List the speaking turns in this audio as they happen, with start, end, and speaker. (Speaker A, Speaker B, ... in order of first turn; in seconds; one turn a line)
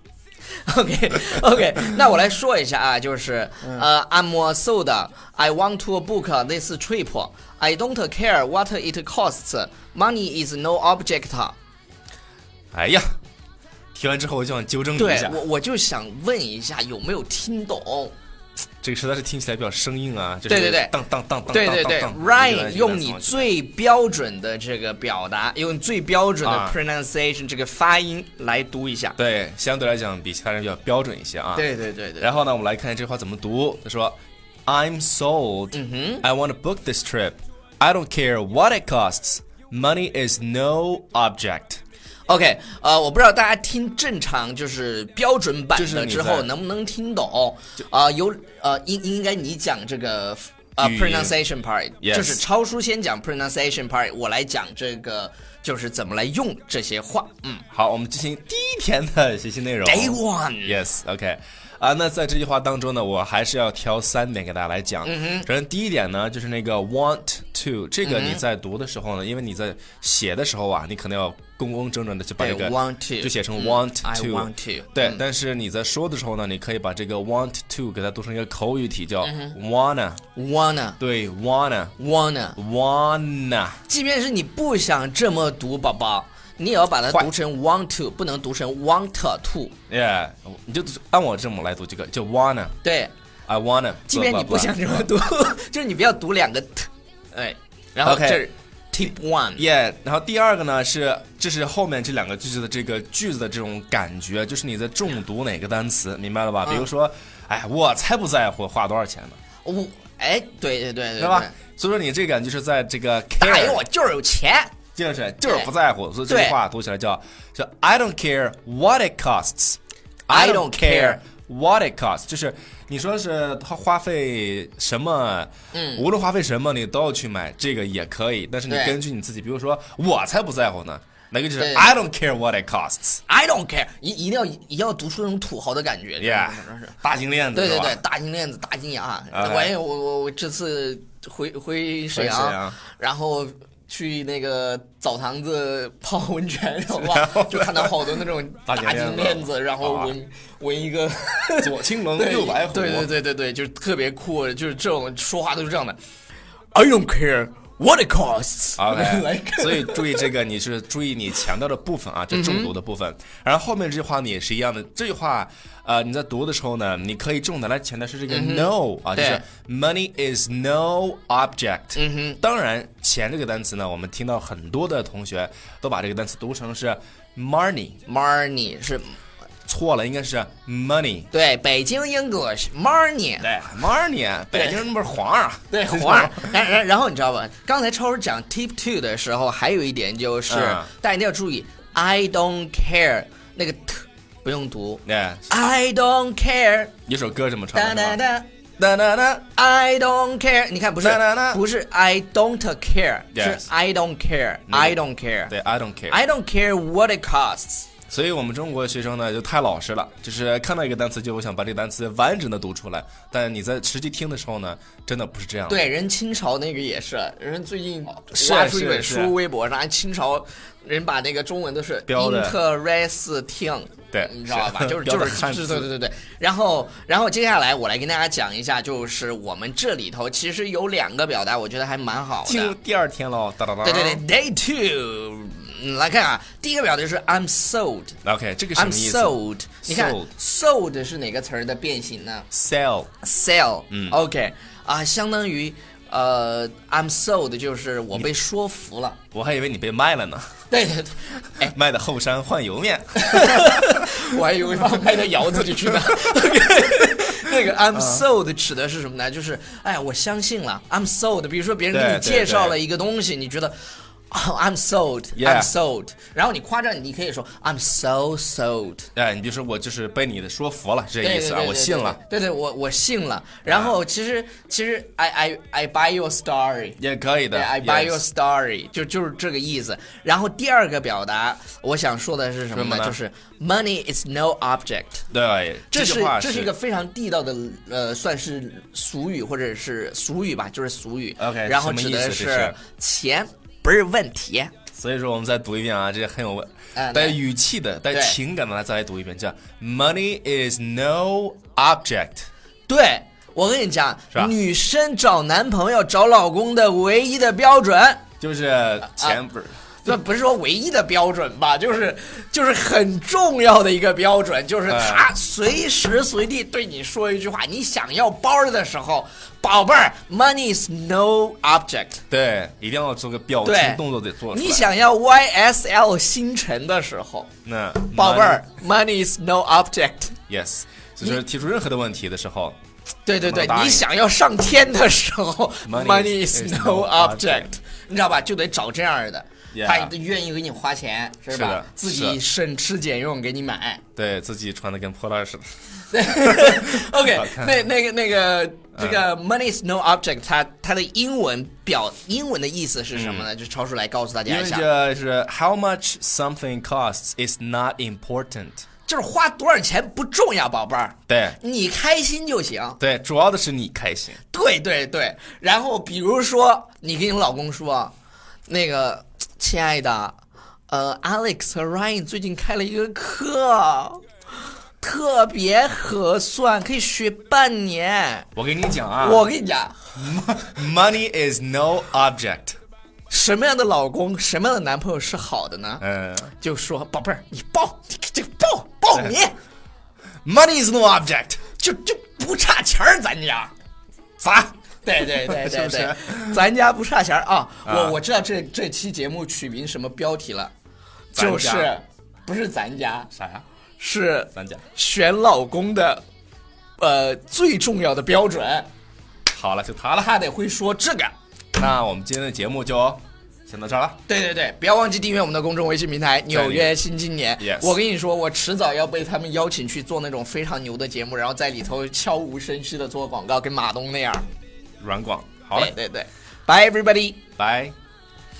Speaker A: 0.6-11.6
Speaker B: 12.7-13.2
Speaker B: 13.9-15.4
Speaker A: 15.0-18.1
Speaker B: 18.8-23.5
Speaker A: 20.5-20.9
Speaker A: 21.5-29.2
Speaker B: 26.4-26.8
Speaker B: 29.2-41.8
Speaker A: 31.6-32.3
Speaker A: 35.7-36.2
Speaker A: 42.3-57.6
Speaker B: 45.8-46.5
Speaker B: 50.8-51.4
Speaker B: 52.0-52.4
Speaker B: 57.7-80.2
Speaker A: 59.8-60.8
Speaker A: 65.0-65.5
Speaker A: 68.0-68.4
Speaker A: 72.4-75.2
Speaker A: 79.2-79.6
Speaker A: 80.3-81.0
Speaker B: 81.0-82.0
Speaker A: 82.0-82.6
Speaker B: 82.6-83.8
Speaker A: 83.9-89.8
Speaker B: 89.9-92.8
Speaker A: 92.8-93.1
Speaker B: 93.5-95.1
Speaker A: 94.1-99.6
Speaker B: 98.0-98.4
Speaker B: 99.6-109.4
Speaker A: 109.6-111.5
Speaker B: 111.2-113.8
Speaker A: 113.4-114.7
Speaker B: 115.0-133.2
Speaker A: 115.5-115.7
Speaker A: 116.3-116.6
Speaker A: 120.3-121.2
Speaker A: 125.7-126.0
Speaker A: 128.7-129.0
Speaker A: 131.6-131.9
Speaker A: 133.3-137.0
Speaker B: 136.2-138.0
Speaker A: 137.5-156.0
Speaker B: 139.3-139.7
Speaker B: 142.1-142.8
Speaker B: 147.0-150.1
Speaker B: 151.6-153.1
Speaker A: 156.7-160.3
Speaker B: 158.8-178.0
Speaker A: 162.3-162.7
Speaker A: 168.3-169.4
Speaker A: 171.9-172.4
Speaker A: 178.1-179.2
Speaker B: 179.7-181.3
Speaker A: 181.3-183.5
Speaker B: 183.4-186.5
Speaker A: 184.5-184.8
Speaker A: 185.7-196.9
Speaker B: 190.5-190.9
Speaker B: 195.1-195.5
Speaker B: 197.1-198.2
Speaker A: 197.7-198.5
Speaker B: 198.8-199.5
Speaker A: 199.5-205.5
Speaker B: 201.0-201.6
Speaker B: 203.3-203.7
Speaker B: 204.7-206.2
Speaker A: 206.1-207.9
Speaker B: 208.1-215.8
Speaker A: 215.7-232.8
Speaker B: 218.3-219.3
Speaker B: 222.1-222.6
Speaker B: 224.1-225.9
Speaker B: 232.4-234.2
Speaker A: 233.8-238.2
Speaker B: 238.2-240.3
Speaker A: 238.8-242.5
Speaker B: 242.5-243.1
Speaker A: 243.2-249.2
Speaker B: 243.9-244.2
Speaker B: 249.3-250.5
Speaker A: 250.7-251.8
Speaker B: 251.6-254.3
Speaker A: 253.2-263.8
Speaker B: 255.9-256.3
Speaker B: 257.9-258.2
Speaker B: 261.9-262.8
Speaker A: 264.3-269.1
Speaker B: 265.4-265.7
Speaker B: 269.1-272.2
Speaker A: 271.2-277.0
Speaker B: 273.7-274.0
Speaker B: 277.0-278.2
Speaker A: 277.5-285.2
Speaker B: 282.7-283.2
Speaker B: 285.3-286.7
Speaker A: 285.9-294.7
Speaker B: 291.4-292.8
Speaker B: 294.9-302.5
Speaker A: 296.9-297.4
Speaker A: 298.1-298.4
Speaker A: 302.9-308.2
Speaker B: 308.4-309.8
Speaker A: 310.0-322.2
Speaker B: 314.9-315.3
Speaker B: 322.3-324.9
Speaker A: 323.6-327.5
Speaker B: 327.6-328.6
Speaker A: 328.1-330.4
Speaker B: 330.5-332.8
Speaker A: 333.3-344.0
Speaker B: 333.4-334.1
Speaker B: 335.9-337.7
Speaker B: 339.7-340.1
Speaker B: 341.5-342.4
Speaker B: 344.2-345.7
Speaker A: 346.1-354.9
Speaker B: 346.3-347.8
Speaker B: 349.0-349.2
Speaker B: 353.1-353.5
Speaker B: 354.5-358.9
Speaker A: 359.1-363.0
Speaker B: 361.3-361.6
Speaker B: 363.0-364.4
Speaker A: 364.5-368.1
Speaker A: 368.7-374.2
Speaker A: 375.0-378.5
Speaker B: 378.6-379.5
Speaker A: 379.2-380.1
Speaker B: 380.2-382.8
Speaker A: 383.3-386.0
Speaker B: 386.0-386.5
Speaker A: 386.6-389.6
Speaker B: 390.4-391.6
Speaker A: 391.8-393.7
Speaker B: 394.4-396.6
Speaker A: 395.0-400.7
Speaker B: 397.9-398.2
Speaker B: 401.3-401.9
Speaker A: 401.3-403.3
Speaker B: 403.3-403.6
Speaker A: 404.0-406.2
Speaker B: 404.6-404.8
Speaker A: 407.0-408.9
Speaker B: 409.5-410.3
Speaker A: 410.2-411.3
Speaker B: 411.8-414.2
Speaker A: 414.3-424.4
Speaker B: 416.5-417.0
Speaker B: 417.6-417.9
Speaker B: 425.0-425.9
Speaker A: 425.7-427.4
Speaker B: 427.6-427.9